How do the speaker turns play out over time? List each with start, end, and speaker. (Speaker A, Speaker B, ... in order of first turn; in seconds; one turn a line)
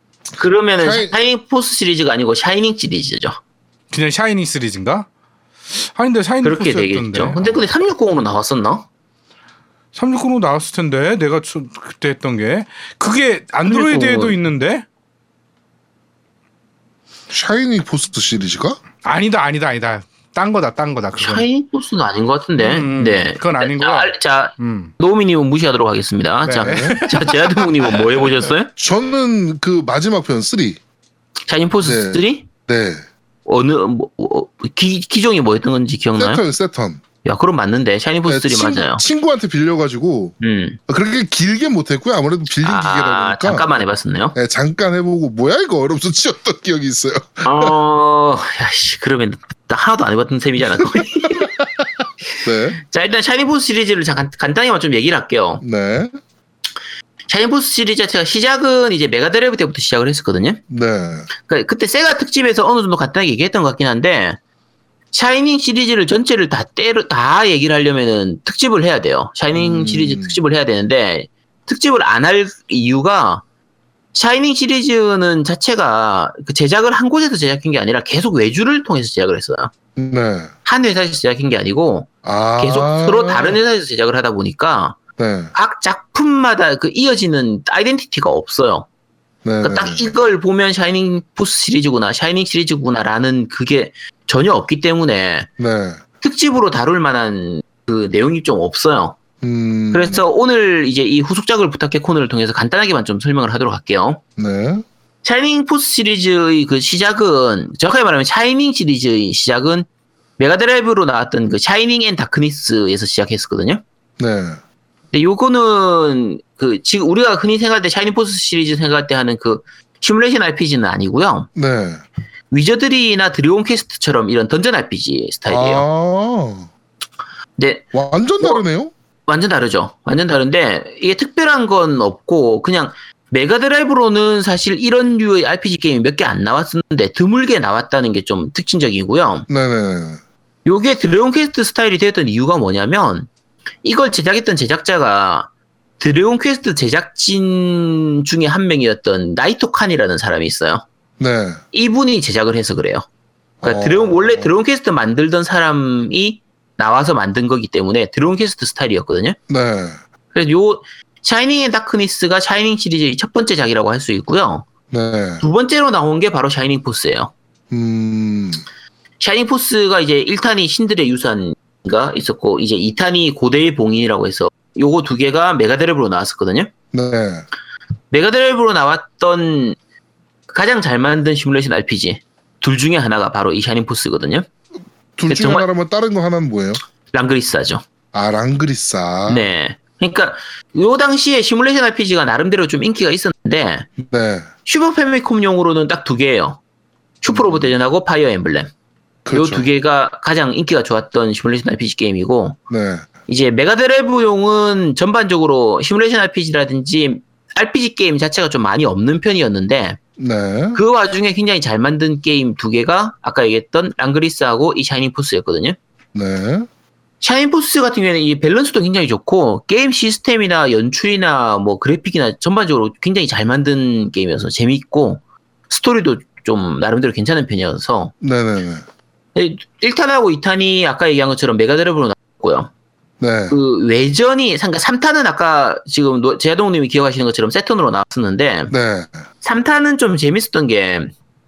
Speaker A: 0.4-3.4
Speaker B: 0.8-1.1
Speaker C: 3.9-5.1
Speaker C: 5.7-7.6
Speaker A: 6.4-8.9
Speaker C: 9.9-14.8
Speaker A: 13.7-14.4
Speaker B: 17.3-18.8
Speaker C: 19.0-21.4
Speaker A: 21.2-28.7
Speaker C: 22.6-24.9
Speaker C: 26.5-28.0
Speaker B: 26.6-27.0
Speaker B: 28.8-30.8
Speaker A: 31.5-32.5
Speaker B: 31.8-33.0
Speaker A: 33.5-36.4
Speaker B: 36.2-37.0
Speaker A: 37.2-39.0
Speaker B: 38.3-40.4
Speaker A: 40.4-40.8
Speaker B: 40.9-43.7
Speaker A: 42.6-44.4
Speaker B: 44.4-47.8
Speaker A: 47.4-51.5
Speaker B: 50.8-51.6
Speaker B: 52.4-52.8
Speaker A: 52.8-55.6
Speaker B: 55.6-56.1
Speaker A: 57.3-60.6
Speaker B: 60.7-61.3
Speaker A: 61.4-64.4
Speaker A: 65.1-73.4
Speaker B: 69.5-70.4
Speaker A: 74.1-79.7
Speaker B: 80.0-80.5
Speaker A: 80.7-85.0
Speaker B: 82.2-83.6
Speaker B: 85.2-85.5
Speaker A: 85.5-88.9
Speaker B: 89.4-90.1
Speaker A: 89.6-95.5
Speaker B: 95.6-96.0
Speaker A: 96.2-99.2
Speaker B: 99.4-100.2
Speaker A: 99.9-104.2
Speaker B: 104.4-104.8
Speaker A: 105.2-109.9
Speaker A: 110.4-113.8
Speaker B: 114.2-114.6
Speaker A: 115.1-121.5
Speaker B: 121.5-122.0
Speaker A: 122.5-125.8
Speaker B: 125.5-126.7
Speaker A: 127.6-128.6
Speaker B: 127.9-128.9
Speaker A: 129.3-139.5
Speaker B: 139.5-140.2
Speaker A: 140.7-143.3
Speaker A: 143.8-150.8
Speaker B: 151.2-151.6
Speaker A: 151.7-153.1
Speaker B: 153.6-154.6
Speaker A: 153.6-159.4
Speaker B: 159.5-160.0
Speaker A: 160.3-164.7
Speaker B: 164.9-165.4
Speaker A: 165.4-167.3
Speaker B: 167.7-168.6
Speaker A: 169.2-176.7
Speaker B: 176.9-177.5
Speaker A: 178.1-179.8
Speaker A: 180.5-184.5
Speaker B: 185.2-186.8
Speaker A: 185.3-185.7
Speaker A: 187.1-187.8
Speaker B: 188.1-189.5
Speaker A: 189.3-193.9
Speaker B: 194.0-194.5
Speaker A: 194.7-196.6
Speaker A: 197.2-198.7
Speaker B: 197.3-197.7
Speaker B: 199.2-199.7
Speaker A: 199.3-202.6
Speaker B: 202.7-203.1
Speaker A: 203.3-210.0
Speaker B: 210.2-210.8
Speaker A: 210.8-215.8
Speaker B: 216.1-216.7
Speaker A: 217.2-228.1
Speaker B: 228.2-228.8
Speaker A: 229.3-232.7
Speaker B: 233.2-233.6
Speaker A: 233.5-238.7
Speaker B: 238.7-239.2
Speaker A: 239.4-241.1